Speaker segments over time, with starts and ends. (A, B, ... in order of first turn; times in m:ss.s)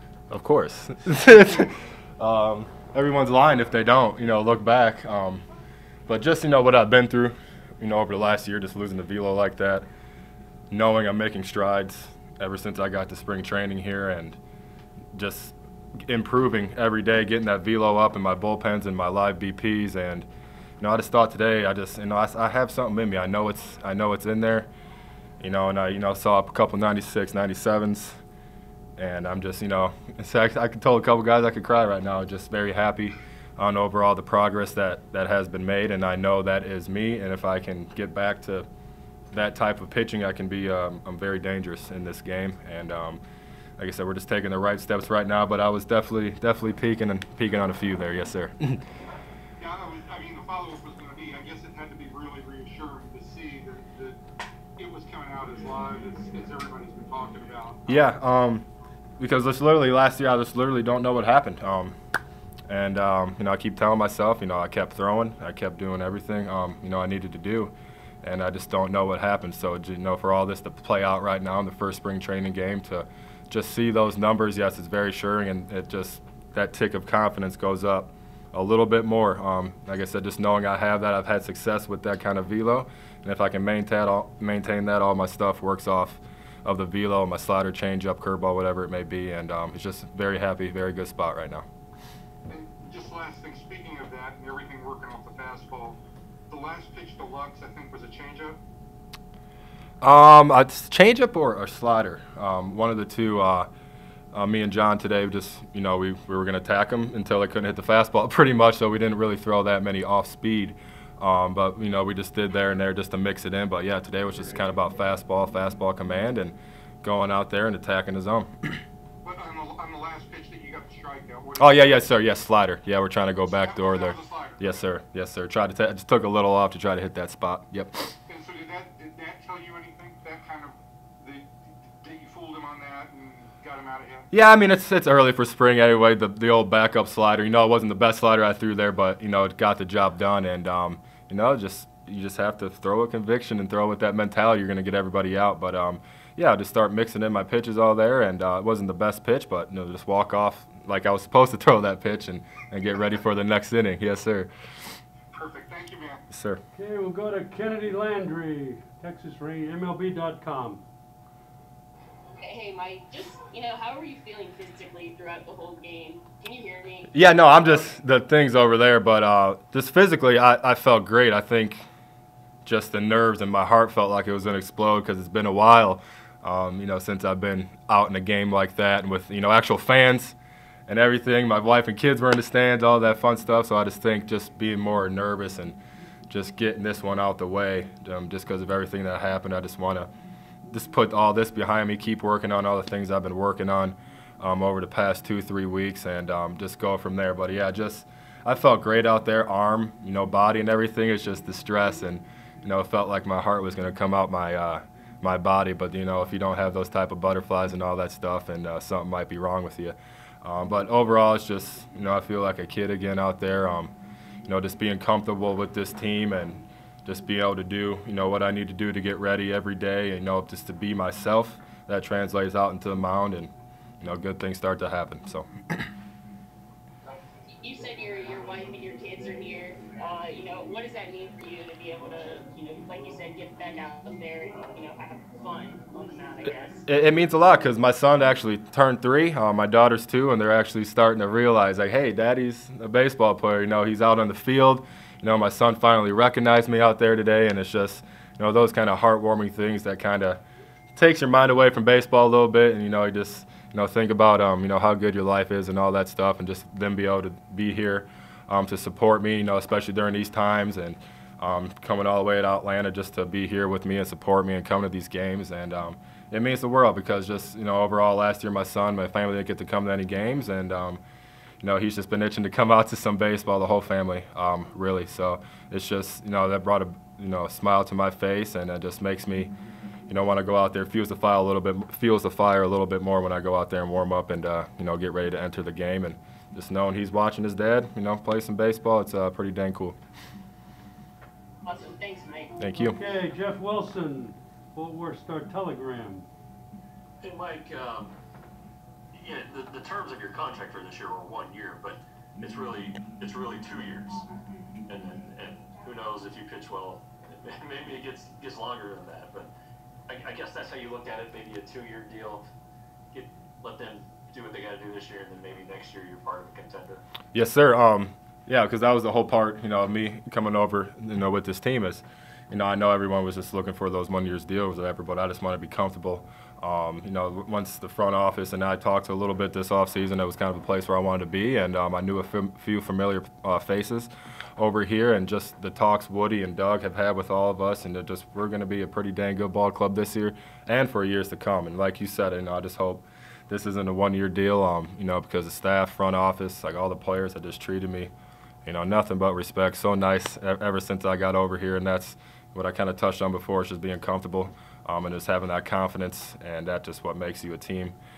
0:00.3-0:05.4 A
0:06.1-0:09.8 A
0:10.7-0:14.4 A
0:15.1-0:15.6 A
0:16.1-0:20.3 A
0:20.8-0:24.7 A
0:25.4-0:28.2 A
0:29.0-0:38.7 A
0:39.3-0:43.2 A
0:43.8-0:48.8 A
0:49.6-0:54.2 B
0:54.8-0:58.0 B
0:57.9-0:58.7 A
0:59.2-1:01.9 A
1:02.7-1:31.6 A
1:32.5-1:38.6 B
1:40.0-1:43.7 A
1:44.3-1:58.8 A
1:59.2-2:01.9 B
2:01.6-2:08.1 A
2:03.5-2:04.6 B
2:08.3-2:14.3 B
2:14.3-2:34.5 A
2:35.3-2:36.2 B
2:36.3-2:36.6 A
2:36.7-2:40.8 C
2:42.4-2:47.9 D
2:47.1-2:51.8 A
2:52.6-3:00.4 A
3:00.9-3:05.8 A
3:06.3-3:10.1 A
3:10.7-3:33.9 A
3:34.5-3:45.9 A
3:47.6-3:56.8 D
3:56.9-4:10.4 A
4:11.0-4:31.0 A
4:31.6-4:39.5 A
4:40.1-4:50.0 A
4:51.6-4:52.6 D
4:52.6-4:53.0 A
4:52.8-4:56.3 C
4:57.2-4:58.1 E
4:59.2-5:04.2 E
5:04.9-5:09.5 E
5:10.1-5:12.5 E
5:13.1-5:17.0 E
5:17.3-5:48.1 A
5:48.6-5:58.0 A